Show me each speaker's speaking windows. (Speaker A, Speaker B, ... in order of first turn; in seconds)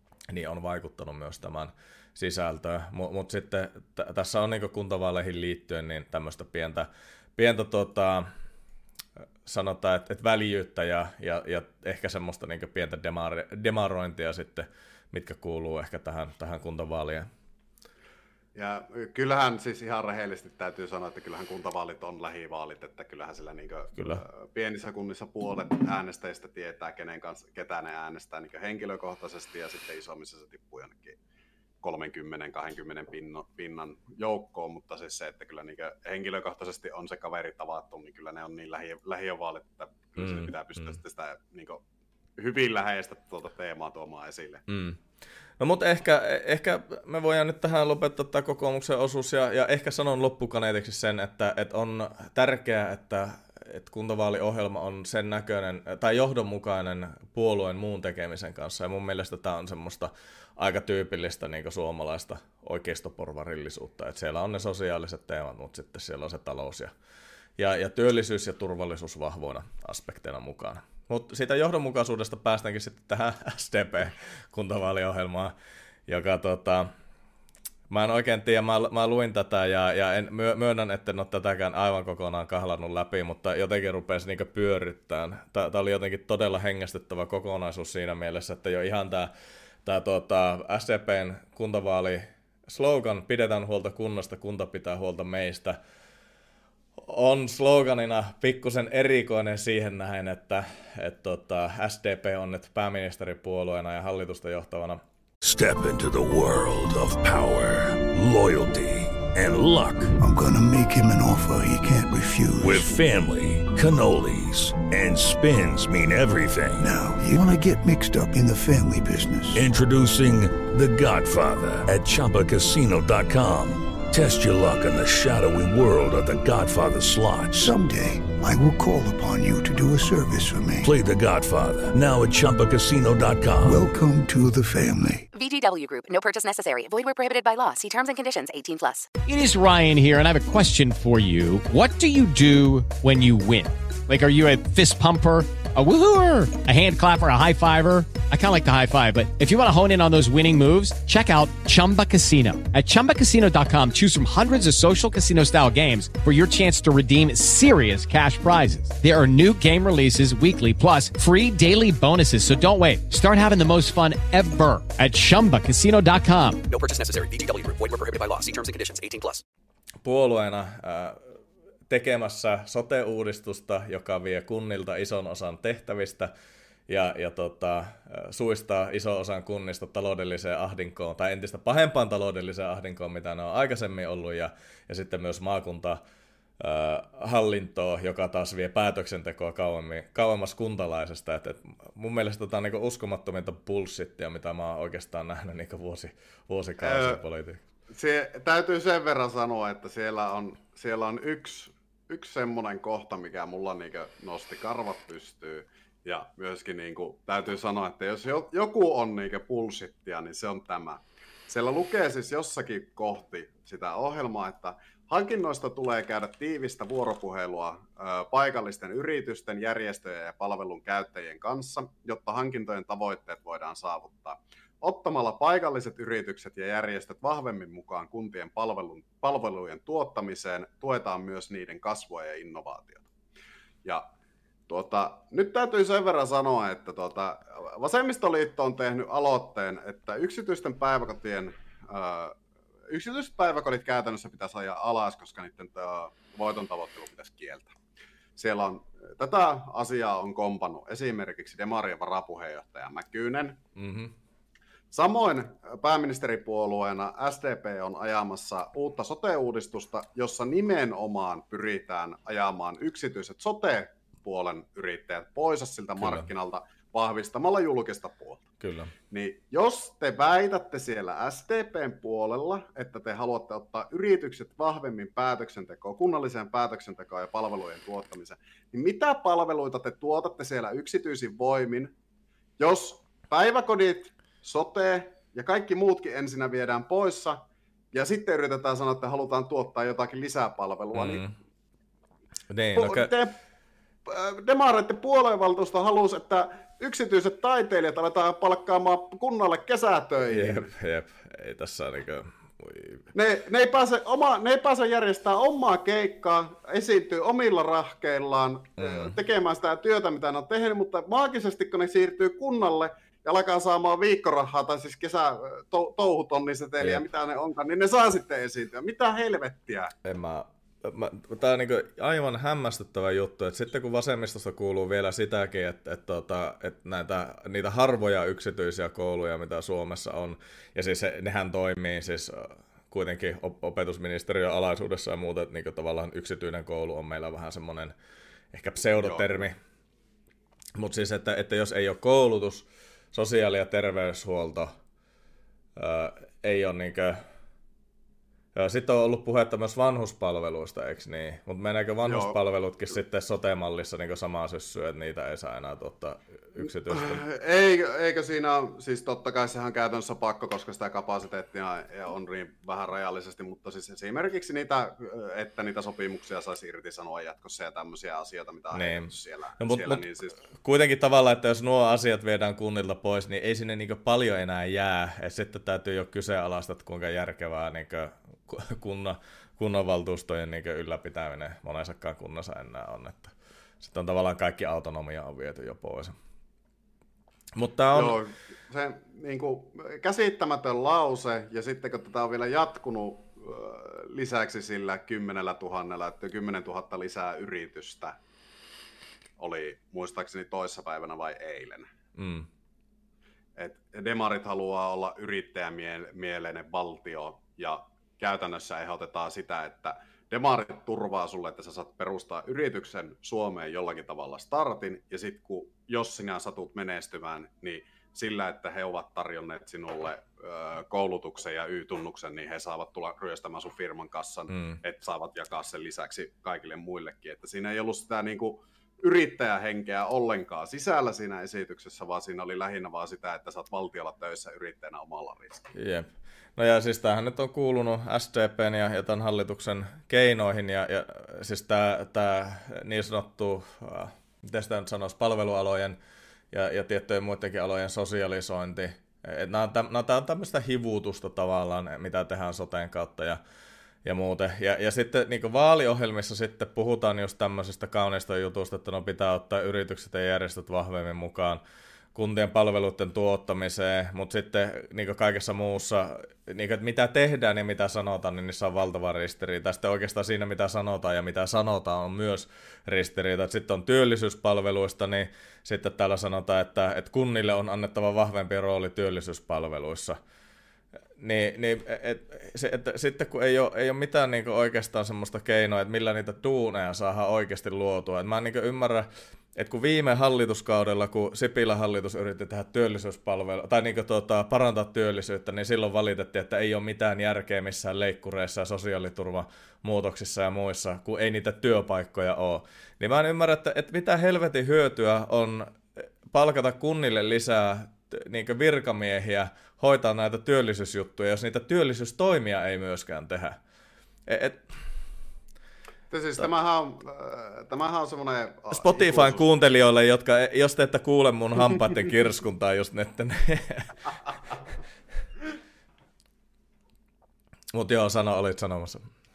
Speaker A: 0.3-8.3, 9.4-17.3, 23.9-24.2, 40.2-41.0, 44.7-45.0, 45.6-66.9, 67.6-75.5, 76.1-76.9, 77.9-89.3, 89.8-95.8, 97.0-105.0, 170.0-171.3, 171.9-176.3, 176.9-186.0, 186.6-197.6, 253.8-254.1, 266.0-266.3, 268.6-268.9, 290.9-291.3, 292.5-293.1, 300.3-303.0, 308.8-309.1, 316.8-317.1, 320.0-337.9, 338.5-339.6, 340.8-344.7, 345.8-347.2, 348.5-357.2, 368.7-370.1, 370.6-386.1, 387.6-388.2, 402.1-402.5, 424.5-424.8, 435.7-446.0, 446.5-453.4, 454.0-461.6, 462.1-480.2, 481.2-513.6, 514.3-514.6, 518.7-524.0, 527.7-529.1
Speaker B: 18.5-31.2, 31.8-41.8, 42.4-44.6, 196.8-197.2, 197.9-233.1, 234.7-242.3, 242.9-247.7, 248.4-253.6, 254.9-268.5, 269.1-281.9, 282.6-287.4, 287.9-291.2, 292.7-293.3, 294.1-300.7, 303.1-319.9, 338.9-339.2, 352.1-352.4, 356.9-370.4, 387.9-398.1, 399.4-401.9, 403.6-435.7, 516.1-519.4
Speaker C: 105.4-110.1, 112.6-116.9, 119.5-127.8, 130.8-133.9
Speaker D: 110.2-112.9, 116.8-119.6, 127.6-130.9, 133.6-135.2
Speaker E: 135.3-139.1
Speaker F: 139.2-166.6
Speaker G: 166.7-169.4